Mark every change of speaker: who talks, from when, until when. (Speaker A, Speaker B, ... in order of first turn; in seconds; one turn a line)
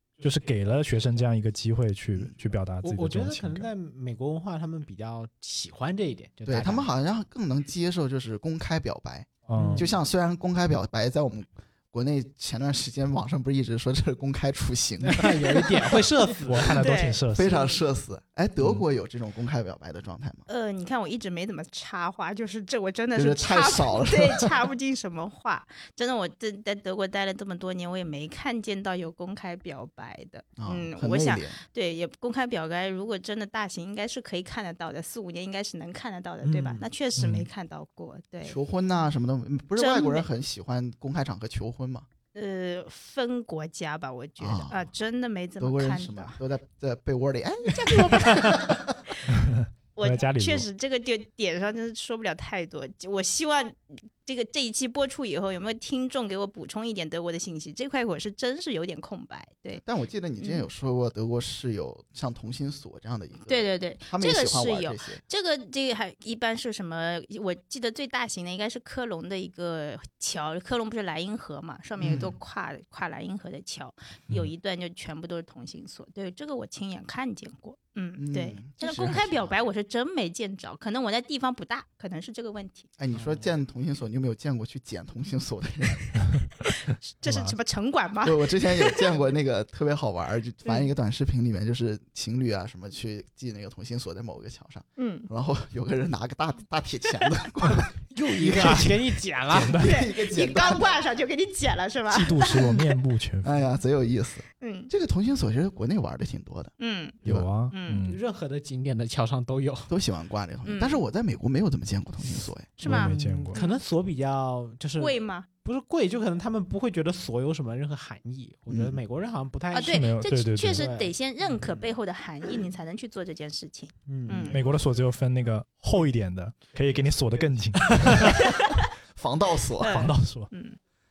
Speaker A: 0.2-3.7
Speaker B: 2.8-6.9
Speaker C: 6.5-16.0
Speaker A: 9.5-9.9
Speaker B: 9.6-9.9
Speaker B: 15.0-16.9
Speaker A: 16.5-17.5
Speaker D: 16.7-17.8
Speaker C: 17.3-20.4
Speaker D: 20.5-38.6
Speaker C: 23.1-24.5
Speaker C: 30.6-31.6
Speaker B: 36.4-36.9
Speaker A: 37.2-37.5
Speaker C: 38.5-42.1
Speaker D: 39.8-40.3
Speaker D: 42.4-46.4
Speaker C: 44.4-44.9
Speaker C: 45.6-49.0
Speaker D: 48.1-48.6
Speaker A: 49.3-50.7
Speaker D: 50.0-59.8
Speaker C: 59.8-65.2
Speaker D: 60.4-60.6
Speaker D: 63.5-82.9
Speaker C: 72.0-72.3
Speaker C: 78.2-79.6
Speaker C: 83.0-86.1
Speaker B: 83.2-83.4
Speaker D: 87.0-89.1
Speaker A: 87.2-87.5
Speaker C: 88.2-99.0
Speaker D: 95.0-95.3
Speaker B: 98.1-99.8
Speaker A: 99.5-100.0
Speaker C: 99.6-101.0
Speaker D: 99.8-102.8
Speaker A: 102.1-103.6
Speaker C: 103.4-106.7
Speaker D: 104.6-104.9
Speaker D: 106.8-107.2
Speaker C: 107.2-107.5
Speaker A: 107.2-108.2
Speaker D: 107.7-108.0
Speaker B: 108.1-109.9
Speaker C: 109.9-112.8
Speaker D: 110.7-111.0
Speaker D: 112.8-113.8
Speaker A: 112.8-113.6
Speaker B: 112.8-120.1
Speaker D: 115.0-115.5
Speaker C: 118.7-119.0
Speaker D: 119.7-124.6
Speaker A: 119.8-120.9
Speaker B: 120.7-121.8
Speaker B: 124.1-124.6
Speaker A: 124.5-128.4
Speaker D: 128.4-128.8
Speaker C: 129.2-130.1
Speaker D: 129.8-130.8
Speaker A: 129.8-130.5